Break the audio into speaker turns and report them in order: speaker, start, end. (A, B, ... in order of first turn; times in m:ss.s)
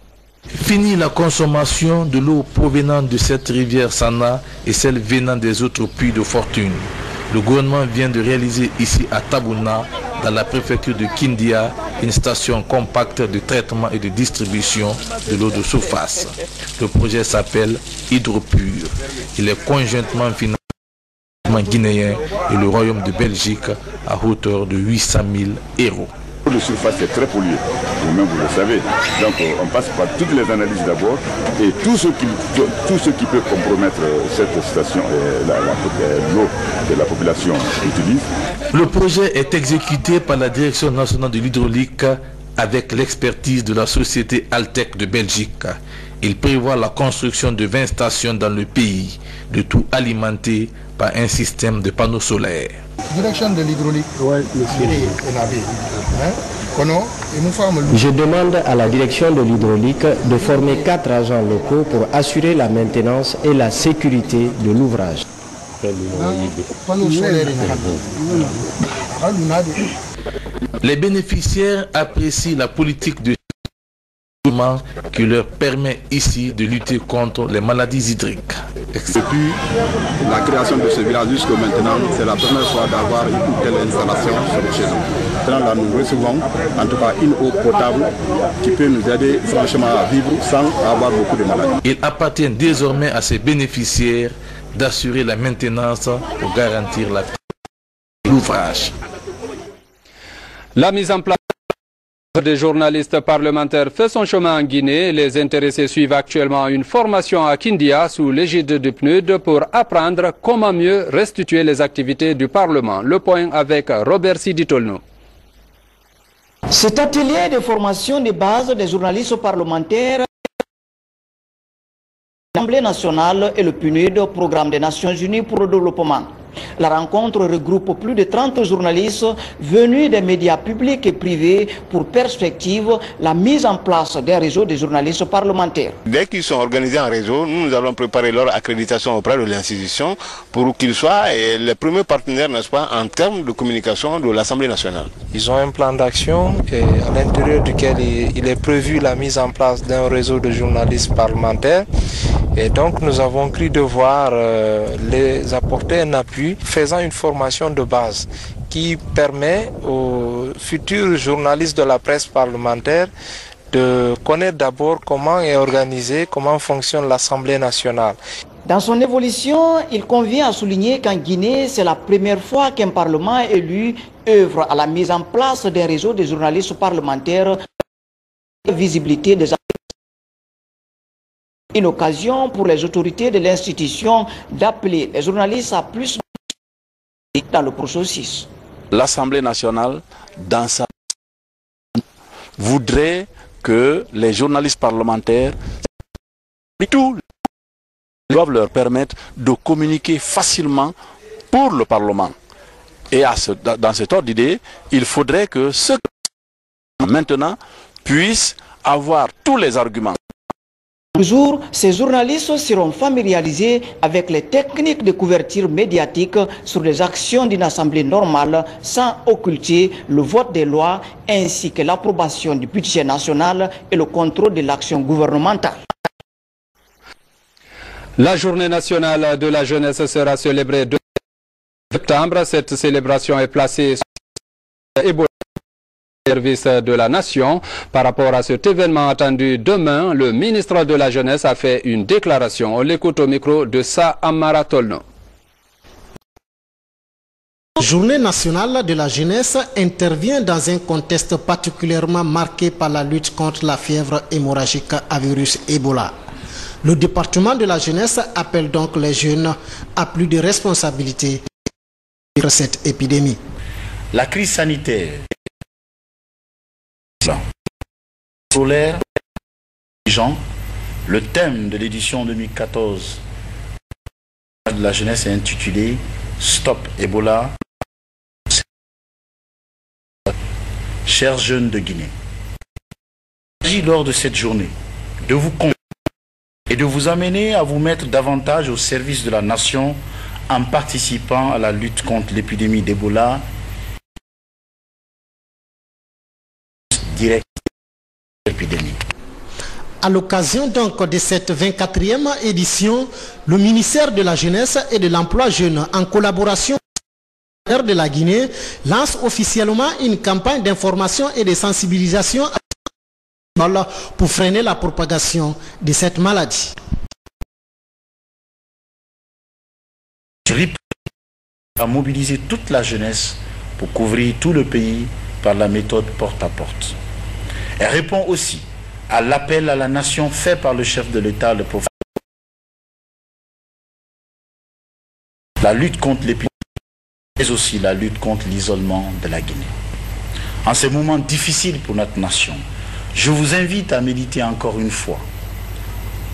0:00.5-0:20.6 A
0:21.5-0:26.1 A
0:26.4-0:38.2 B
0:38.7-0:52.8 A
0:53.1-0:58.0 C
0:57.9-1:05.2 D
1:06.2-1:08.5 C
1:09.2-1:09.9 C
1:10.8-1:13.4 A
1:14.4-1:19.2 A
1:19.2-1:19.6 E
1:20.2-1:31.7 E
1:31.8-1:37.3 A
1:38.2-1:38.9 A
1:40.8-1:41.4 F
1:42.3-1:55.0 F
1:56.7-2:00.3 G
2:02.5-2:16.0 G
2:16.0-2:25.1 H
2:25.3-2:31.9 I
2:32.5-2:43.1 I
2:43.7-2:48.2 I
2:48.6-2:57.6 G
2:58.6-2:59.6 G
3:01.7-3:06.2 G
3:07.4-3:08.5 G
3:08.9-3:10.9 J
3:12.6-3:15.6 J
3:16.8-3:17.2 J
3:18.3-3:20.9 J
3:21.5-3:22.3 J
3:23.1-3:26.0 J
3:27.0-3:30.2 J
3:31.1-3:45.8 G
3:48.2-3:51.0 F
3:51.9-3:54.0 F
3:55.0-3:55.3 F
3:56.3-4:05.0 F
4:07.8-4:16.2 K
4:16.8-4:21.4 K
4:22.4-4:23.4 K
4:24.1-4:25.3 L
4:28.5-4:29.0 L
4:30.1-4:30.4 L
4:31.0-4:33.2 L
4:34.7-4:37.5 L
4:41.0-4:42.1 L
4:43.6-4:44.7 L
4:45.2-4:45.7 L
4:46.7-4:53.4 L
4:56.9-4:57.6 L
4:58.5-4:59.0 L
5:00.0-5:06.8 K
5:07.7-5:12.6 K
5:13.6-5:16.7 K
5:20.5-5:20.8 L
5:21.8-5:26.9 L
5:27.8-5:31.9 L
5:35.6-5:36.5 L
5:37.4-5:39.7 L
5:40.6-5:42.6 L
5:43.1-5:45.2 L